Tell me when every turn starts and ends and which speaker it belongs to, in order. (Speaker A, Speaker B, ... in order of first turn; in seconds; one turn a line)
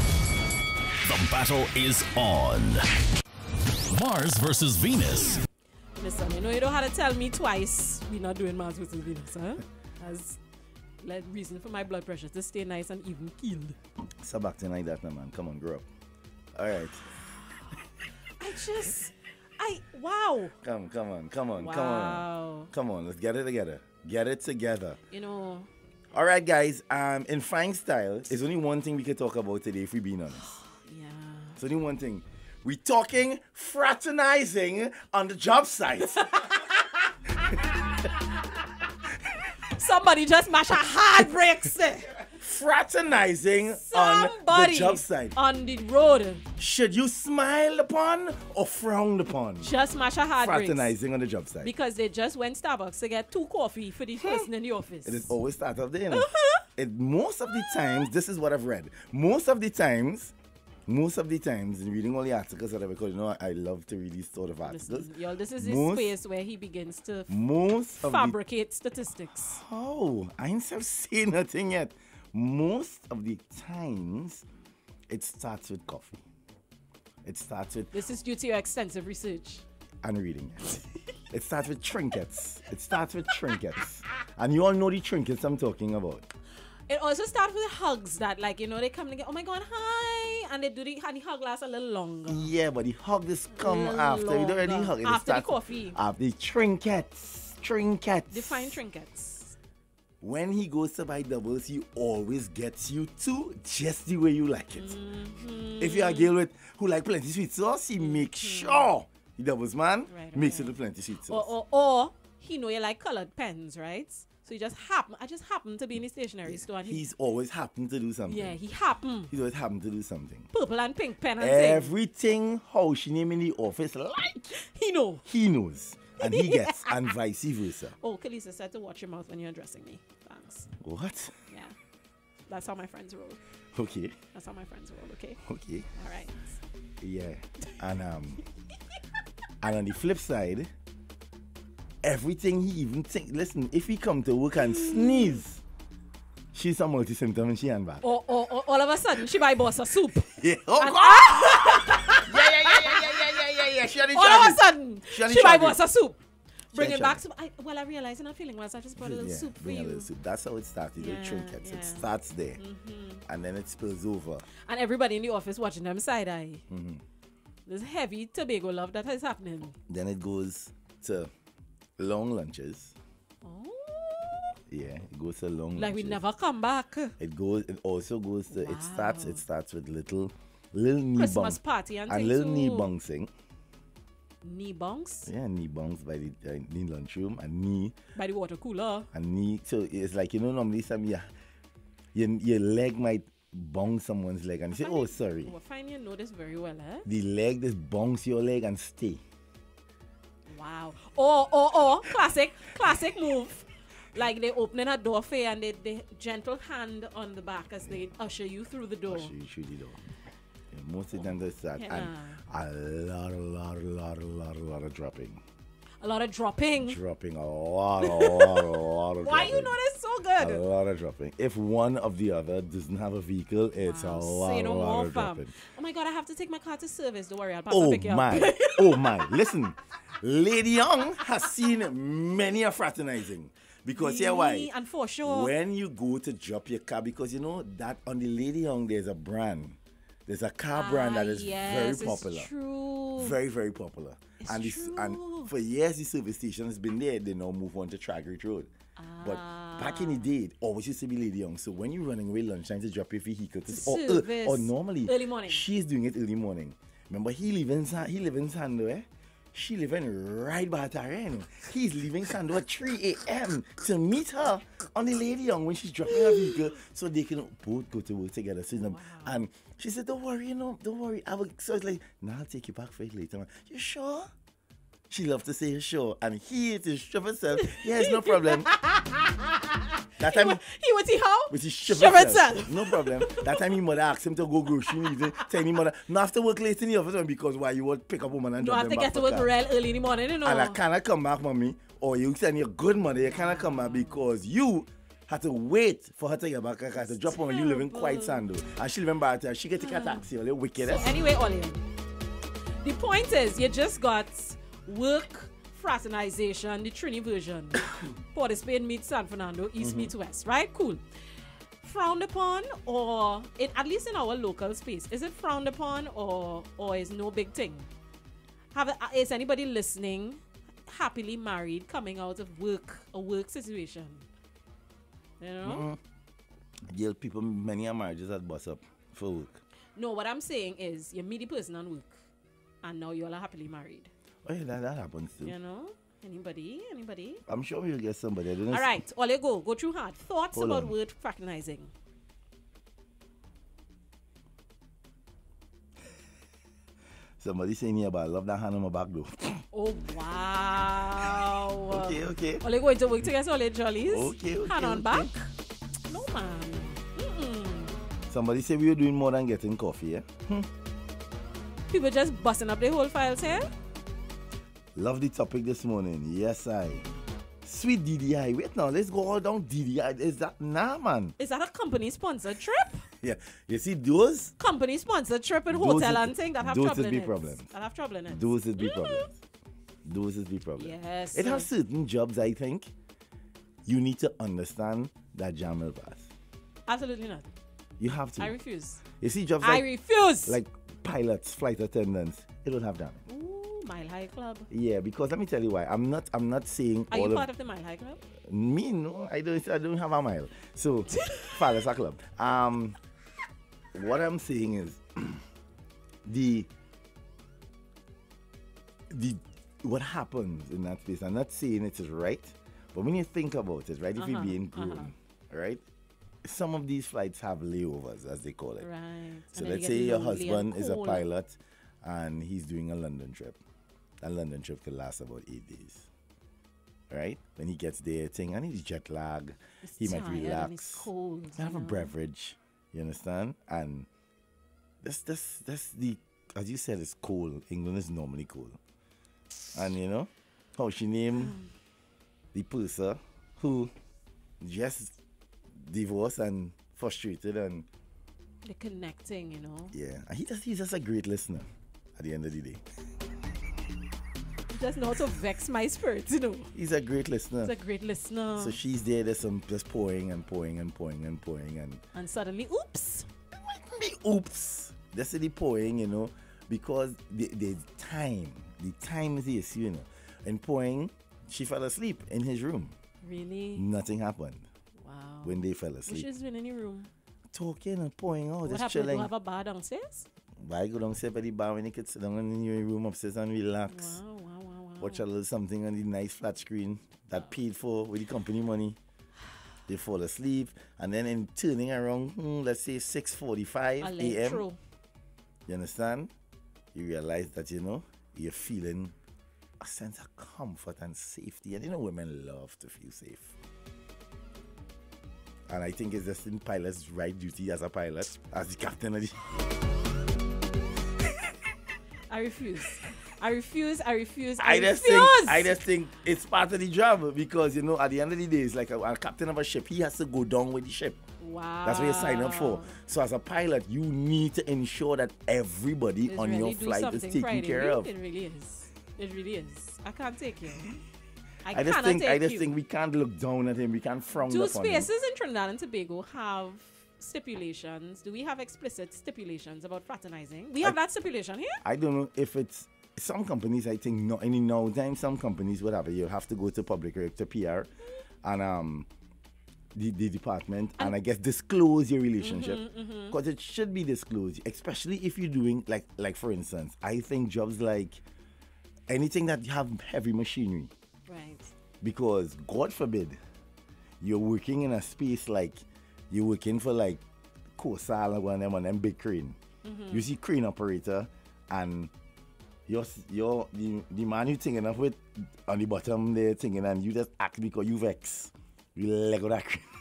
Speaker A: 1.0-2.9
Speaker A: 3.9-5.4
Speaker B: 6.0-10.4
Speaker B: 11.0-13.8
Speaker C: 14.2-15.8
Speaker C: 16.6-17.1
Speaker B: 18.4-20.5
Speaker C: 20.6-25.0
Speaker B: 21.6-22.7
Speaker B: 25.1-25.7
Speaker C: 26.1-30.5
Speaker B: 30.4-31.6
Speaker C: 31.6-36.5
Speaker B: 36.3-36.7
Speaker C: 37.5-37.8
Speaker B: 39.8-42.1
Speaker C: 42.2-45.3
Speaker B: 43.7-46.4
Speaker C: 46.6-49.7
Speaker B: 49.6-50.9
Speaker C: 50.4-51.7
Speaker B: 51.6-55.3
Speaker C: 54.2-54.5
Speaker C: 55.0-60.3
Speaker B: 56.1-56.6
Speaker C: 60.9-66.1
Speaker B: 64.6-67.4
Speaker C: 67.3-68.4
Speaker B: 68.0-69.6
Speaker C: 69.5-74.5
Speaker C: 75.1-76.2
Speaker C: 77.2-77.9
Speaker B: 77.9-79.6
Speaker C: 80.0-80.7
Speaker C: 81.3-86.3
Speaker B: 86.9-92.5
Speaker C: 92.3-98.8
Speaker B: 93.5-96.0
Speaker B: 98.3-99.5
Speaker C: 100.2-104.9
Speaker B: 104.8-106.3
Speaker C: 105.8-111.5
Speaker B: 108.0-108.9
Speaker B: 110.1-117.0
Speaker C: 116.5-118.6
Speaker B: 118.2-119.3
Speaker C: 119.3-120.5
Speaker B: 120.5-121.9
Speaker C: 121.4-124.6
Speaker B: 124.5-125.2
Speaker C: 125.2-128.0
Speaker B: 126.2-127.1
Speaker B: 128.0-130.7
Speaker C: 130.8-131.3
Speaker B: 131.5-131.8
Speaker B: 132.5-133.4
Speaker C: 133.7-134.2
Speaker B: 134.3-135.4
Speaker C: 135.4-135.9
Speaker B: 135.9-136.5
Speaker C: 137.0-138.4
Speaker C: 139.6-140.7
Speaker C: 142.0-145.6
Speaker B: 144.6-145.4
Speaker C: 146.5-148.0
Speaker B: 148.0-153.2
Speaker C: 150.3-155.8
Speaker B: 154.1-156.2
Speaker C: 156.7-157.2
Speaker B: 156.7-160.1
Speaker C: 158.9-162.6
Speaker B: 161.0-162.0
Speaker B: 162.6-163.2
Speaker C: 163.2-164.5
Speaker B: 164.7-166.6
Speaker C: 166.7-167.0
Speaker B: 167.7-169.8
Speaker C: 169.9-171.3
Speaker C: 172.0-172.9
Speaker B: 173.4-174.5
Speaker C: 174.7-176.2
Speaker B: 175.8-177.2
Speaker C: 177.2-183.3
Speaker B: 178.5-179.4
Speaker B: 181.2-182.9
Speaker B: 184.4-185.3
Speaker C: 185.2-188.0
Speaker B: 188.2-189.1
Speaker C: 189.1-191.3
Speaker C: 192.1-195.5
Speaker B: 194.7-197.1
Speaker C: 197.0-199.2
Speaker B: 200.5-209.3
Speaker C: 209.1-210.0
Speaker C: 210.7-215.4
Speaker B: 211.8-212.4
Speaker B: 216.0-217.0
Speaker C: 216.8-219.8
Speaker B: 218.0-218.7
Speaker B: 219.2-220.6
Speaker C: 220.4-225.6
Speaker B: 223.8-229.4
Speaker C: 227.7-234.7
Speaker B: 233.9-235.5
Speaker C: 235.2-242.5
Speaker B: 240.7-243.4
Speaker C: 243.2-248.7
Speaker B: 244.4-245.5
Speaker B: 249.0-250.3
Speaker C: 249.2-274.3
Speaker B: 253.7-255.6
Speaker B: 268.7-269.4
Speaker C: 275.1-278.7
Speaker B: 277.6-283.6
Speaker C: 280.2-280.6
Speaker C: 281.5-289.5
Speaker B: 284.9-285.5
Speaker B: 288.6-290.8
Speaker C: 290.4-301.1
Speaker B: 293.2-294.2
Speaker B: 297.1-298.5
Speaker B: 299.8-300.2
Speaker B: 300.8-301.8
Speaker B: 302.8-311.0
Speaker C: 309.8-310.1
Speaker B: 311.8-317.9
Speaker B: 318.7-324.2
Speaker B: 325.4-325.9
Speaker C: 325.6-326.0
Speaker C: 326.9-329.6
Speaker B: 329.9-332.2
Speaker B: 332.8-334.1
Speaker C: 334.4-335.6
Speaker B: 335.4-337.4
Speaker C: 337.5-339.0
Speaker B: 338.7-341.9
Speaker C: 340.5-340.9
Speaker C: 347.4-349.6
Speaker B: 349.7-355.5
Speaker C: 351.9-352.6
Speaker C: 354.0-355.3
Speaker B: 356.1-357.9
Speaker C: 358.3-360.7
Speaker B: 361.9-363.7
Speaker C: 364.9-367.1
Speaker C: 367.6-371.3
Speaker B: 371.4-373.0
Speaker C: 373.2-374.5
Speaker B: 374.6-379.3
Speaker C: 375.7-377.7
Speaker C: 378.3-379.3
Speaker C: 380.0-382.9
Speaker B: 380.8-381.7
Speaker C: 383.8-386.3
Speaker B: 386.9-387.4
Speaker C: 388.0-389.9
Speaker B: 388.4-389.0
Speaker B: 389.6-390.6
Speaker C: 390.5-393.2
Speaker B: 393.3-394.7
Speaker C: 394.7-397.5
Speaker B: 397.1-398.2
Speaker C: 398.4-403.0
Speaker B: 401.1-401.6
Speaker C: 403.9-405.4
Speaker C: 406.2-406.7
Speaker C: 409.1-415.8
Speaker B: 414.1-415.1
Speaker C: 416.4-418.9
Speaker B: 418.8-421.2
Speaker C: 419.5-423.6
Speaker C: 424.2-426.1
Speaker C: 427.1-434.1
Speaker B: 429.8-432.1
Speaker C: 435.0-438.8
Speaker C: 439.7-441.6
Speaker B: 441.4-441.7
Speaker C: 442.5-443.9
Speaker C: 444.6-445.2
Speaker C: 445.7-447.9
Speaker B: 448.6-449.9
Speaker C: 449.9-452.8
Speaker B: 454.7-456.7
Speaker C: 456.7-457.7
Speaker B: 457.6-458.8
Speaker C: 458.6-462.0
Speaker B: 462.1-463.3
Speaker C: 463.5-472.9
Speaker B: 473.2-473.9
Speaker C: 473.7-474.6
Speaker B: 475.0-477.1
Speaker C: 475.4-476.3
Speaker C: 477.5-479.3
Speaker B: 478.6-480.3
Speaker C: 480.6-484.2
Speaker B: 483.9-485.2
Speaker C: 485.0-489.0
Speaker C: 489.9-494.6
Speaker B: 494.0-494.8
Speaker C: 495.6-496.3
Speaker C: 496.9-499.1
Speaker C: 499.8-503.5
Speaker C: 505.7-509.4
Speaker B: 512.3-515.8
Speaker C: 514.6-521.2
Speaker B: 521.4-523.0
Speaker C: 521.9-528.1
Speaker B: 526.3-530.9
Speaker B: 531.6-532.7
Speaker C: 531.7-535.1
Speaker B: 534.5-541.8
Speaker C: 541.8-547.9
Speaker C: 548.4-549.1
Speaker C: 549.9-558.2
Speaker B: 552.4-553.4
Speaker C: 559.1-560.9
Speaker B: 561.3-561.7
Speaker C: 562.0-563.4
Speaker C: 564.2-567.2
Speaker C: 567.8-569.6
Speaker B: 569.8-570.3
Speaker C: 570.1-572.1
Speaker C: 572.9-579.9